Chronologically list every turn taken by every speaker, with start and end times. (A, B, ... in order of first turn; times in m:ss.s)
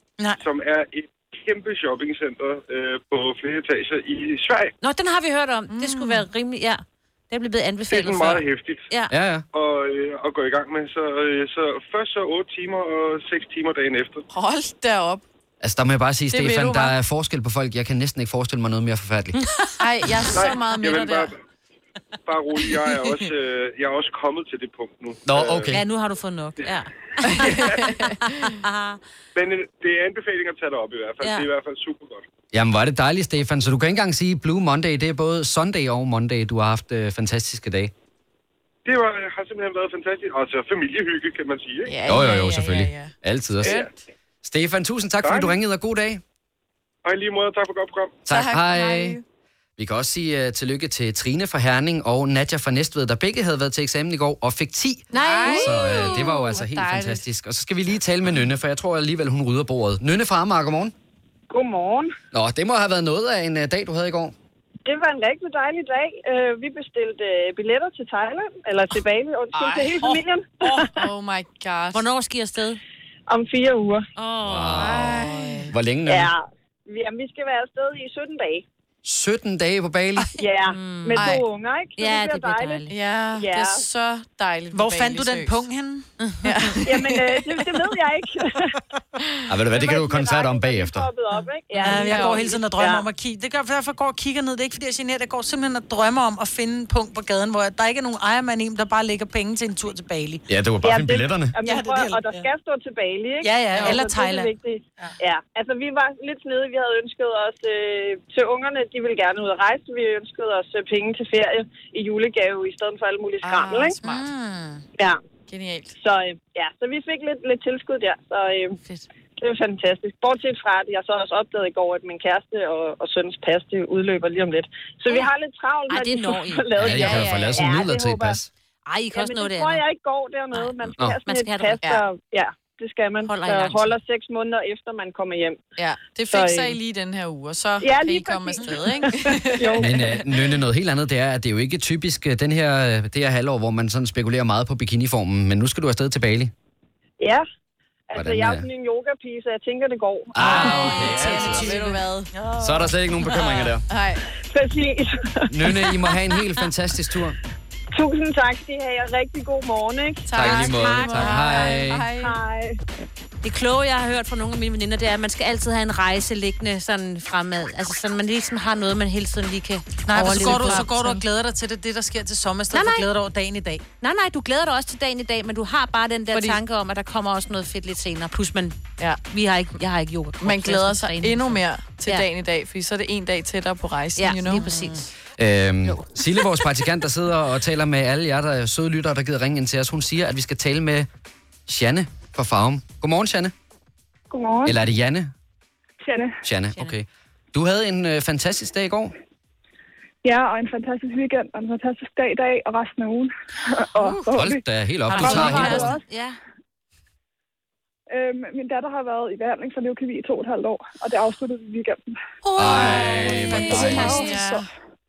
0:00.4-0:04.8 A
0:04.8-0:09.1 B
0:05.7-0:06.3 C
0:07.9-0:08.9 A
0:09.1-0:09.4 D
0:09.5-0:14.2 A
0:14.3-0:15.2 C
0:15.6-0:19.4 D
0:16.3-0:16.9 C
0:19.8-0:21.3 C
0:20.3-0:21.3 A
0:22.3-0:25.7 A
0:23.0-0:23.3 C
0:25.3-0:25.8 D
0:25.7-0:29.0 B
0:27.2-0:28.6 C
0:29.4-0:32.2 A
0:31.2-0:31.5 B
0:32.5-0:37.9 D
0:38.8-0:42.0 A
0:41.8-0:44.0 C
0:42.0-0:43.8 D
0:44.4-0:46.2 D
0:45.2-0:45.6 A
0:47.0-0:48.2 A
0:48.2-0:49.2 D
0:48.3-0:49.2 C
0:49.8-1:00.9 D
0:55.1-0:57.2 C
0:55.1-0:56.4 B
1:01.5-1:02.1 E
1:02.3-1:04.4 D
1:04.8-1:11.0 E
1:10.7-1:12.0 C
1:11.9-1:12.8 B
1:13.3-1:14.0 E
1:14.2-1:15.7 B
1:14.4-1:16.3 D
1:14.8-1:15.7 C
1:16.1-1:18.6 E
1:19.0-1:20.3 D
1:20.4-1:23.9 E
1:20.6-1:21.3 B
1:21.2-1:21.4 C
1:22.0-1:22.9 B
1:22.9-1:25.6 C
1:24.7-1:26.1 F
1:26.4-1:27.6 C
1:26.8-1:28.8 E
1:29.5-1:31.1 D
1:29.7-1:33.1 E
1:31.8-1:40.4 F
1:31.9-1:32.5 C
1:40.5-1:41.6 D
1:40.8-1:54.0 E
1:41.6-1:42.4 F
1:43.4-1:45.1 F
1:53.4-1:54.3 C
1:54.0-1:54.8 F
1:55.5-1:56.0 C
1:56.0-1:58.8 E
1:59.4-2:08.4 E
2:05.9-2:07.2 B
2:06.8-2:08.5 D
2:07.0-2:07.5 C
2:08.9-2:09.8 B
2:09.1-2:15.6 E
2:10.5-2:11.8 B
2:13.2-2:14.0 B
2:15.8-2:20.0 C
2:16.3-2:16.8 E
2:17.8-2:20.0 E
2:19.8-2:26.5 D
2:27.2-2:27.4 E
2:28.1-2:31.0 E
2:28.1-2:28.7 D
2:30.3-2:31.8 D
2:30.4-2:32.9 F
2:30.4-2:32.3 C
2:32.6-2:33.8 D
2:33.9-2:34.2 C
2:34.4-2:35.9 E
2:35.5-2:37.4 D
2:37.9-2:40.3 E
2:40.3-2:42.4 C
2:40.3-2:42.1 D
2:40.4-2:41.4 B
2:42.1-2:42.8 E
2:43.4-2:51.2 B
2:50.1-2:53.8 F
2:52.7-2:53.1 B
2:54.0-3:02.3 B
2:56.3-2:56.6 C
3:00.4-3:04.8 C
3:04.2-3:05.1 B
3:05.4-3:11.1 D
3:11.7-3:13.5 D
3:14.3-3:14.8 G
3:14.6-3:15.3 D
3:16.0-3:16.4 G
3:16.4-3:19.2 D
3:20.2-3:24.6 G
3:24.3-3:26.0 D
3:25.1-3:26.4 B
3:25.2-3:26.0 G
3:28.1-3:32.2 G
3:32.5-3:34.6 B
3:32.6-3:34.3 D
3:33.2-3:34.7 F
3:33.5-3:34.7 G